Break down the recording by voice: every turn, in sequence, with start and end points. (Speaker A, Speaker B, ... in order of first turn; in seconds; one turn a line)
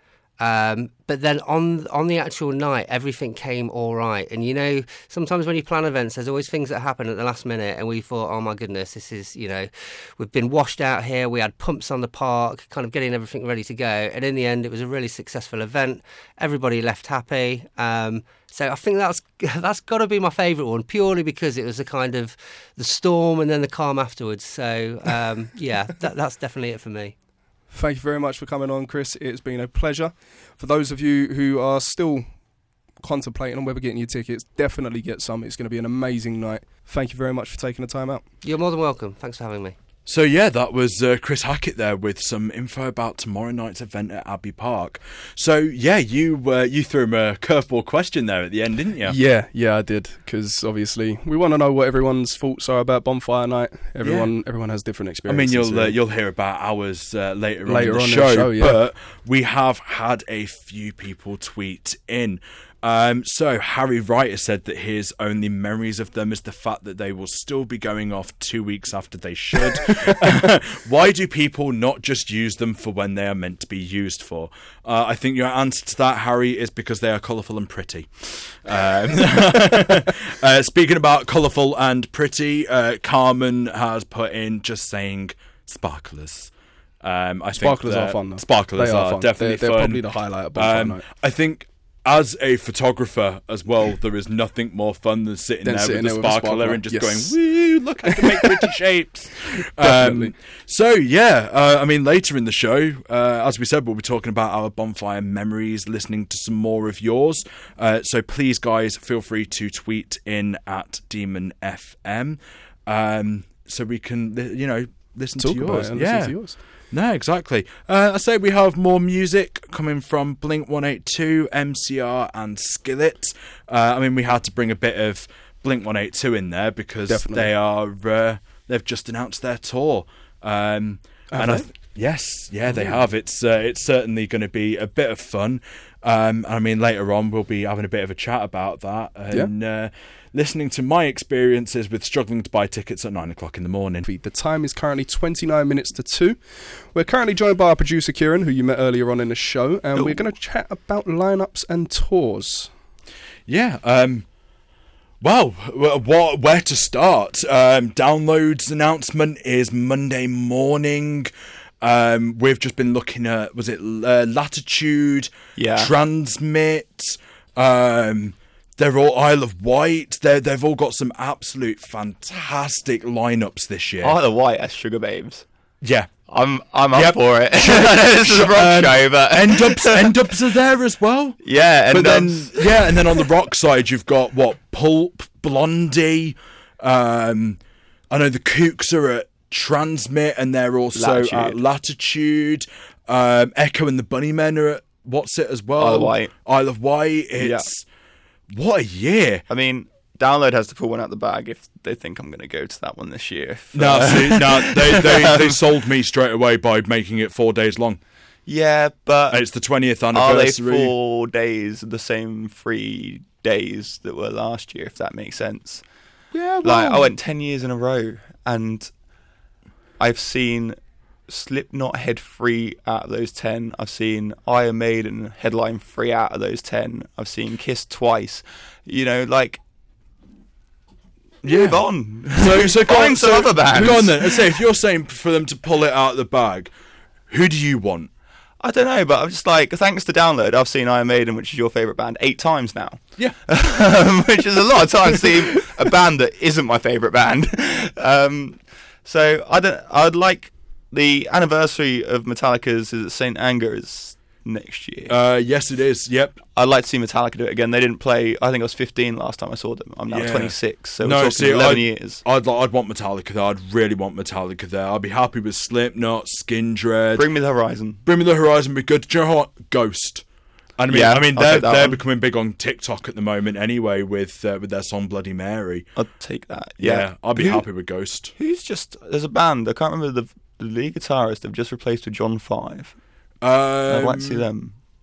Speaker A: 0.4-27.1
Speaker B: 27.7-32.3
Speaker B: 33.0-38.2
Speaker A: 38.4-39.8
Speaker C: 40.0-49.2
Speaker B: 49.0-56.0
Speaker C: 54.0-54.3
Speaker C: 55.3-90.0
Speaker B: 57.6-58.8
Speaker B: 87.5-91.0
Speaker C: 90.5-144.1
Speaker B: 95.6-97.3
Speaker B: 98.0-98.6
Speaker B: 99.8-100.3
Speaker B: 115.4-116.6
Speaker B: 127.1-127.5
Speaker B: 131.3-131.7
Speaker B: 132.7-133.0
Speaker B: 144.1-146.4
Speaker B: 146.9-152.7
Speaker D: 149.9-150.2
Speaker C: 153.5-154.2
Speaker C: 155.2-161.3
Speaker C: 161.8-174.2
Speaker D: 165.6-165.9
Speaker D: 174.0-175.4
Speaker C: 175.8-176.1
Speaker D: 176.3-180.3
Speaker C: 176.9-181.4
Speaker D: 181.4-183.2
Speaker C: 181.9-187.6
Speaker C: 188.1-197.8
Speaker D: 190.9-191.6
Speaker D: 195.8-196.3
Speaker D: 197.4-197.7
Speaker C: 198.5-199.4
Speaker D: 199.5-205.6
Speaker C: 203.7-208.0
Speaker D: 208.5-209.4
Speaker C: 209.3-210.9
Speaker D: 210.1-215.8
Speaker C: 216.3-217.1
Speaker D: 216.6-218.9
Speaker D: 220.0-220.8
Speaker D: 221.3-229.6
Speaker D: 231.4-234.6
Speaker C: 231.4-236.7
Speaker C: 237.3-238.1
Speaker D: 238.6-255.1
Speaker C: 255.1-256.4
Speaker D: 256.5-262.2
Speaker C: 260.1-267.2
Speaker D: 267.1-268.0
Speaker C: 268.0-270.2
Speaker C: 270.8-275.9
Speaker D: 270.9-272.0
Speaker D: 275.9-277.7
Speaker C: 276.8-278.3
Speaker D: 278.4-282.9
Speaker C: 283.4-284.4
Speaker D: 283.9-284.7